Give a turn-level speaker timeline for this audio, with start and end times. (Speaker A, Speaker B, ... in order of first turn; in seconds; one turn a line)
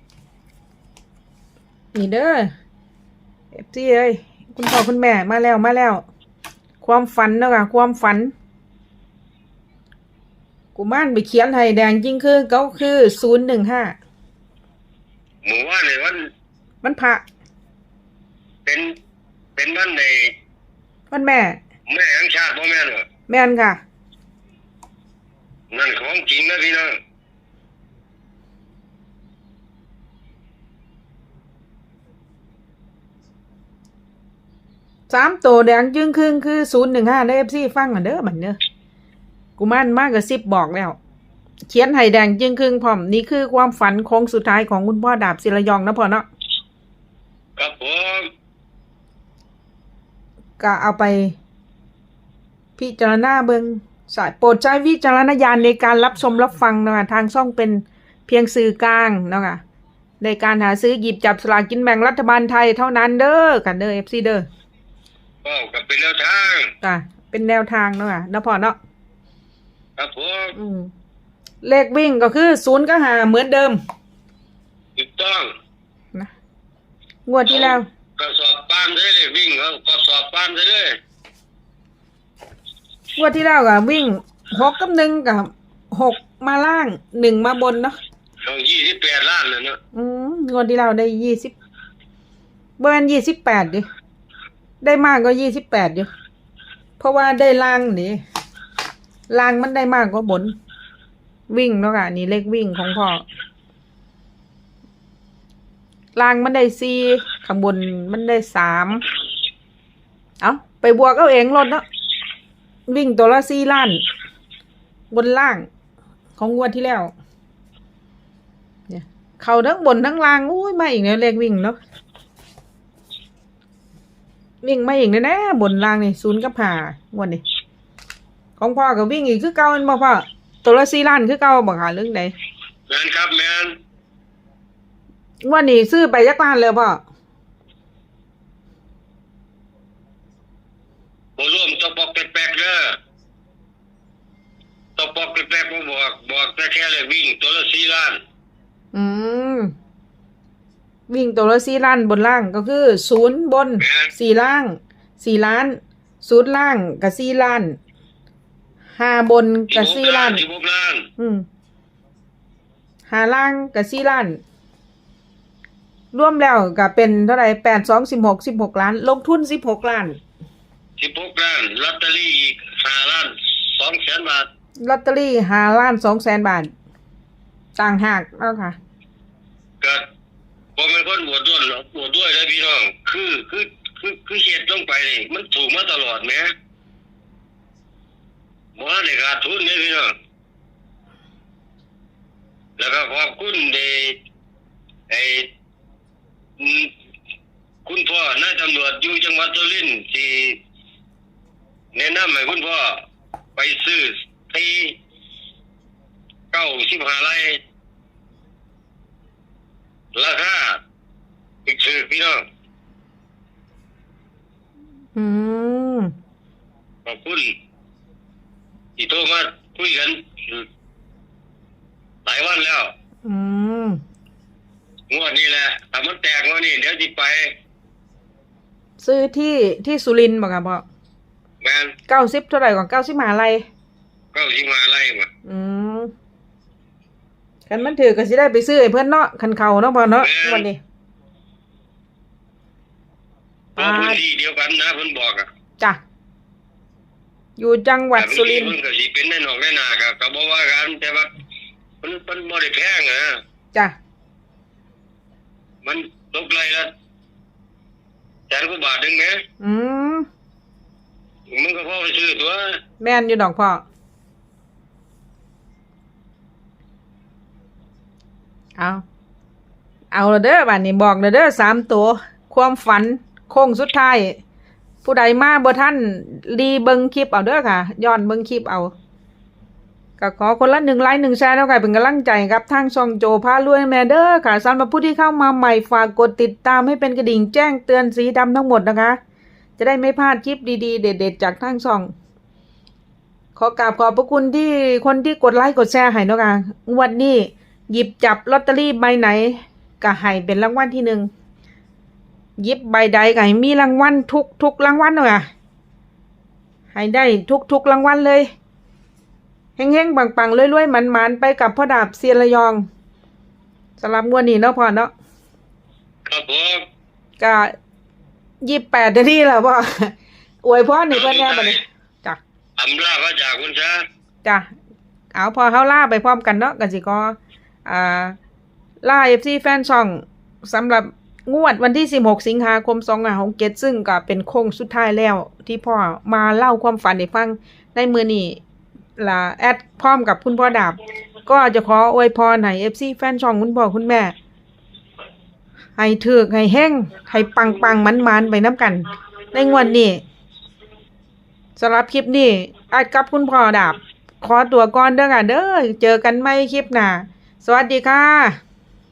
Speaker A: 1.9-2.5
Speaker A: 3.6-6.0
Speaker A: 6.8-8.3
Speaker A: 10.8-14.0
Speaker B: 15.4-16.3
Speaker A: 16.8-17.2
Speaker B: 18.6-19.0
Speaker B: 19.6-20.3
Speaker A: 21.1-21.6
Speaker B: 21.9-23.1
Speaker A: 23.3-23.8
Speaker B: 25.7-27.0
Speaker A: 35.1-38.6
Speaker A: 39.6-41.0
Speaker A: 41.7-46.3
Speaker B: 47.6-48.3
Speaker A: 50.6-51.4
Speaker A: 52.8-59.6
Speaker A: 60.2-64.5
Speaker B: 65.4-66.7
Speaker A: 66.8-68.8
Speaker B: 70.0-70.6
Speaker A: 70.5-70.9
Speaker A: 71.6-73.8
Speaker B: 75.0-75.5
Speaker A: 77.3-77.9
Speaker B: 77.5-81.0
Speaker A: 83.2-88.0
Speaker B: 88.4-89.8
Speaker A: 89.9-91.5
Speaker A: 92.8-93.9
Speaker A: 94.8-96.1
Speaker A: 97.0-98.2
Speaker A: 99.3-100.5
Speaker A: 101.5-103.2
Speaker A: 106.2-109.0
Speaker A: 110.4-111.8
Speaker A: 112.9-114.0
Speaker A: 115.1-115.7
Speaker A: 116.4-117.1
Speaker A: 118.9-121.8
Speaker A: 124.6-127.4
Speaker A: 128.6-132.3
Speaker B: 132.9-133.8
Speaker A: 135.4-137.0
Speaker B: 141.4-143.0
Speaker B: 145.0-148.2
Speaker A: 148.9-149.7
Speaker A: 151.1-157.8
Speaker B: 153.8-154.1
Speaker A: 159.0-160.4
Speaker B: 159.7-161.1
Speaker A: 161.2-161.5
Speaker A: 163.1-164.4
Speaker A: 166.1-170.2
Speaker B: 171.0-174.5
Speaker A: 174.8-176.7
Speaker A: 177.8-178.8
Speaker B: 180.8-186.5
Speaker B: 188.8-190.1
Speaker B: 192.8-194.2
Speaker B: 195.1-195.5
Speaker B: 196.6-196.9
Speaker B: 197.8-200.6
Speaker B: 201.9-203.0
Speaker B: 203.6-205.0
Speaker B: 206.5-207.6
Speaker B: 210.2-210.8
Speaker B: 211.7-212.4
Speaker A: 215.2-216.1
Speaker B: 217.1-217.6
Speaker B: 219.0-220.7
Speaker B: 222.2-222.9
Speaker A: 223.2-224.0
Speaker B: 225.1-227.5
Speaker A: 229.0-230.8
Speaker B: 231.6-231.9
Speaker A: 232.1-233.7
Speaker B: 234.3-235.3
Speaker A: 235.4-236.1
Speaker A: 237.7-240.8
Speaker B: 240.2-240.7
Speaker A: 243.8-244.2
Speaker B: 243.8-245.5
Speaker A: 247.6-248.8
Speaker B: 248.2-251.3
Speaker B: 252.0-253.4
Speaker B: 255.8-256.9
Speaker B: 258.5-259.4
Speaker A: 259.6-260.3
Speaker B: 261.5-262.8
Speaker A: 263.0-263.8
Speaker A: 268.8-269.0
Speaker A: 270.1-274.4
Speaker A: 275.0-278.9
Speaker A: 280.2-289.2
Speaker A: 289.8-292.1
Speaker A: 293.6-301.3
Speaker A: 302.6-305.5
Speaker A: 306.9-308.5
Speaker A: 309.8-312.9
Speaker A: 314.0-315.1
Speaker B: 316.2-316.9
Speaker A: 317.4-317.7
Speaker A: 318.6-320.1
Speaker A: 320.6-322.4
Speaker B: 321.1-321.8
Speaker B: 322.8-324.1
Speaker A: 325.3-328.4
Speaker A: 329.0-338.6
Speaker A: 339.2-344.3
Speaker A: 346.0-350.2
Speaker A: 351.8-358.6